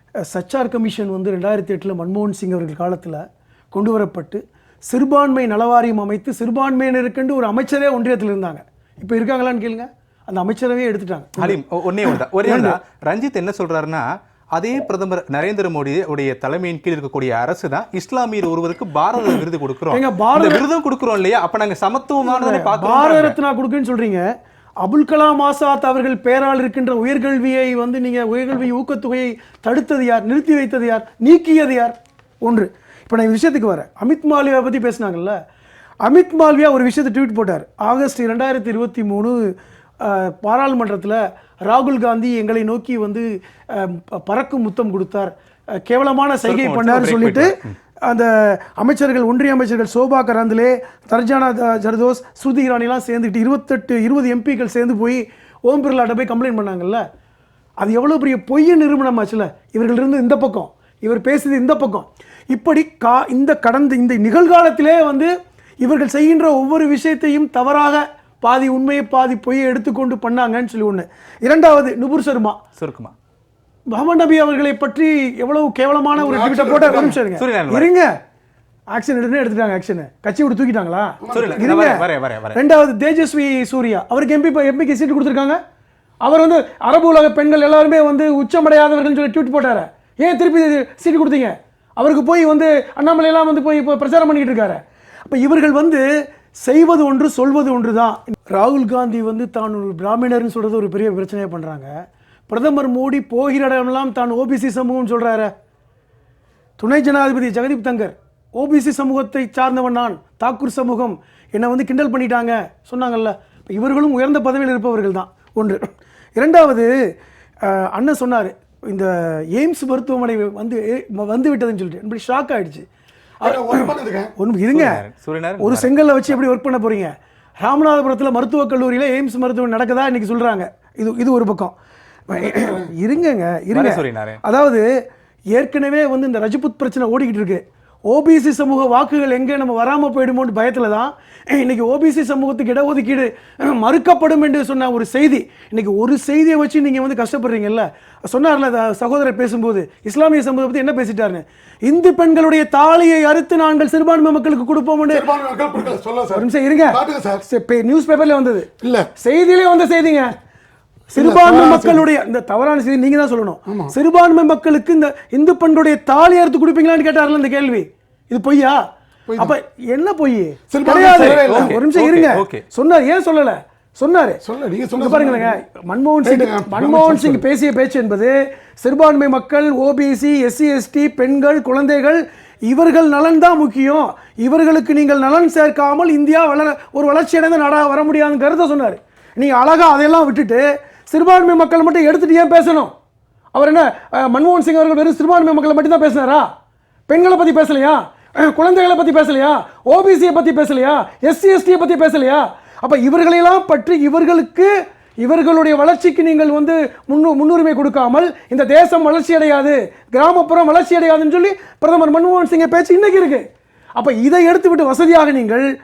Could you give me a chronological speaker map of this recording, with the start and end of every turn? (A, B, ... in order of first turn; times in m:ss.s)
0:00.2-0:12.8 A
0:11.4-0:23.4 B
0:19.9-0:20.6 A
0:22.2-0:24.3 A
0:24.8-0:35.4 A
0:36.0-0:57.0 A
0:46.4-0:47.7 B
0:57.8-1:12.6 A
1:12.8-1:13.1 B
1:13.9-1:18.1 A
1:16.2-1:17.1 C
1:17.4-1:17.9 B
1:18.9-1:25.6 A
1:21.2-1:21.6 C
1:21.3-1:22.6 B
1:26.2-1:36.0 A
1:36.6-1:41.9 A
1:42.5-1:45.5 A
1:46.8-1:55.8 A
1:56.4-1:56.9 A
1:57.6-2:02.8 A
2:03.4-2:04.3 C
2:03.4-2:03.8 A
2:04.4-2:05.0 A
2:04.7-2:05.9 B
2:05.6-2:11.7 A
2:12.3-2:14.9 A
2:13.7-2:14.4 B
2:15.5-2:35.3 A
2:35.1-2:37.4 C
2:36.3-2:40.3 A
2:38.8-2:39.1 C
2:41.1-2:48.8 A
2:41.2-2:42.0 C
2:49.3-2:49.5 C
2:49.4-2:54.4 A
2:50.7-2:51.8 C
2:51.1-2:52.6 B
2:54.4-2:55.5 C
2:54.9-3:12.9 A
2:56.2-2:57.4 C
3:13.5-3:16.5 A
3:17.1-3:33.4 A
3:34.0-3:35.7 A